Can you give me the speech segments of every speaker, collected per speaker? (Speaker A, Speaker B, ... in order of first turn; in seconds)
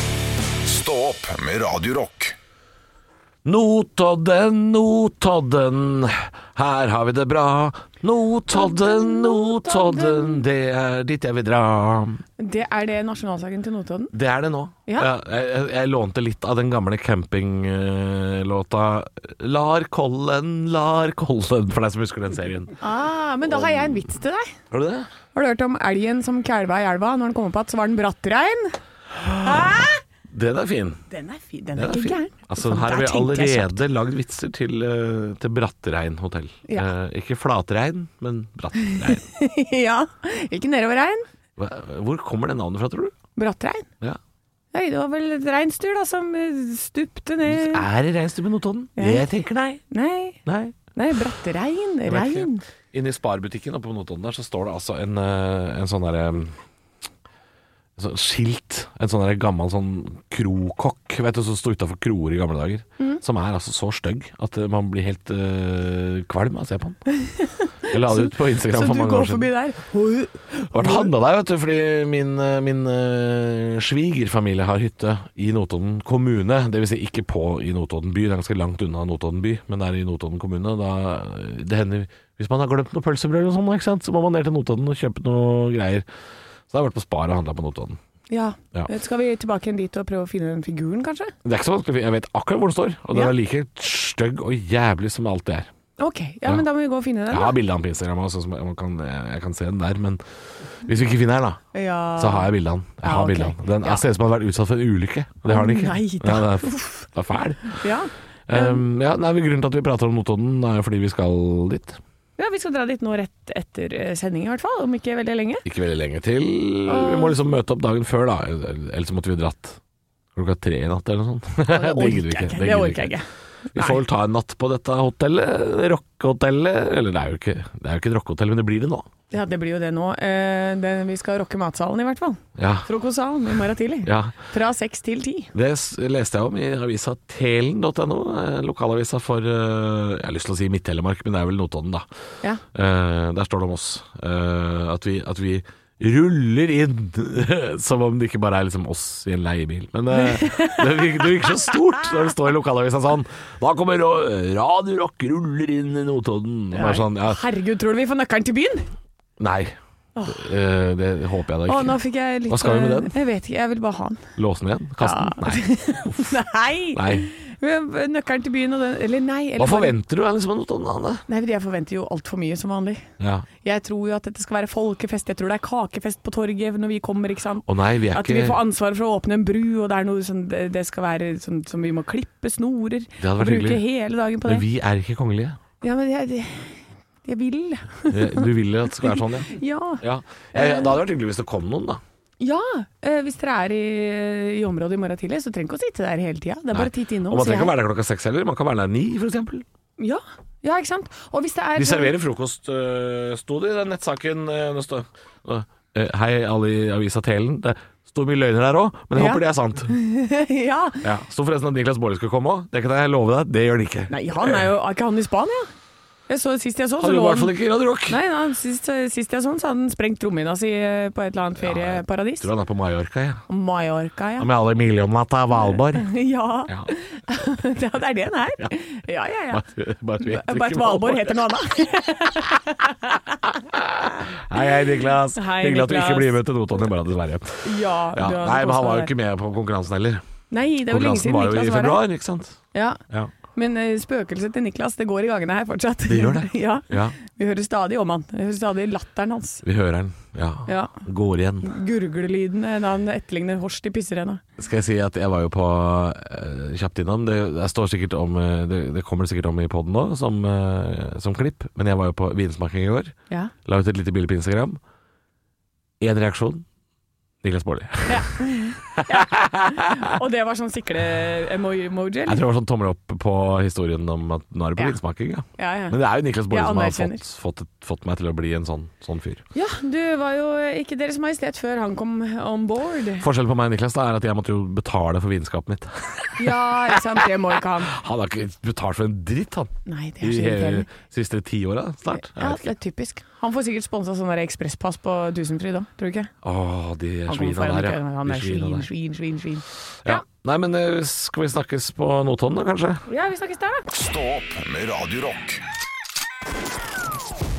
Speaker A: 0.6-2.4, 303.9-305.6
Speaker B: 3.5-12.2, 14.1-22.8, 23.5-24.0, 24.7-25.1, 29.2-31.0, 31.8-39.2, 41.6-43.1, 47.5-49.8, 50.5-50.8, 52.1-56.6, 58.0-67.0, 67.9-69.5, 70.7-86.1, 86.7-88.0, 91.4-95.7, 97.3-100.2, 100.8-101.6, 102.2-107.9, 108.5-112.0, 115.7-119.8, 120.3-123.2, 123.7-129.1, 132.6-132.9, 134.0-134.3, 135.5-142.1, 142.7-157.4, 159.4-159.8, 160.3-163.1, 164.4-166.4, 166.9-167.3, 169.6-171.2, 173.2-173.5, 177.7-178.6, 183.2-183.8, 184.4-185.6, 188.1-192.0, 196.7-199.7, 201.8-209.9, 211.0-214.7, 217.0-218.2, 221.6-223.4, 224.4-226.1, 226.7-226.9, 229.5-231.5, 233.6-240.2, 240.9-242.6, 246.1-247.2, 249.6-251.7, 254.6-263.1, 263.6-264.8, 266.0-266.6, 267.4-268.3, 268.9-270.0, 272.3-279.4, 283.2-287.3, 287.8-292.7, 296.4-298.9, 300.0-303.0
Speaker C: 8.5-10.4, 12.4-14.1, 22.8-24.5, 25.4-28.8, 29.4-30.0, 31.1-33.8, 38.9-41.2, 43.4-43.9, 44.7-47.9, 49.0-49.2, 49.9-50.4, 50.9-52.6, 67.2-71.1, 88.3-91.3, 96.0-97.6, 101.7-102.5, 103.0-104.0, 105.5-107.1, 107.7-108.8, 112.4-115.6, 116.9-117.4, 121.7-124.0, 129.3-135.5, 150.1-151.8, 156.7-158.9, 160.2-160.5, 161.7-164.2, 165.0-169.9, 171.3-173.1, 173.6-184.7, 185.8-190.0, 190.5-190.9, 192.4-197.7, 200.0-202.1, 209.2-211.0, 214.1-215.7, 216.3-217.6, 218.1-222.5, 223.5-224.5, 225.7-229.6, 230.2-233.5, 234.1-234.8, 235.3-236.4, 237.6-239.1, 240.5-242.0, 242.7-243.0, 243.5-249.6, 250.7-251.0, 251.6-254.4, 268.1-272.4, 275.6-276.0, 276.5-277.2, 279.6-283.3, 286.4-287.9, 289.9-290.9, 292.1-296.3, 297.3-300.2, 303.1-303.9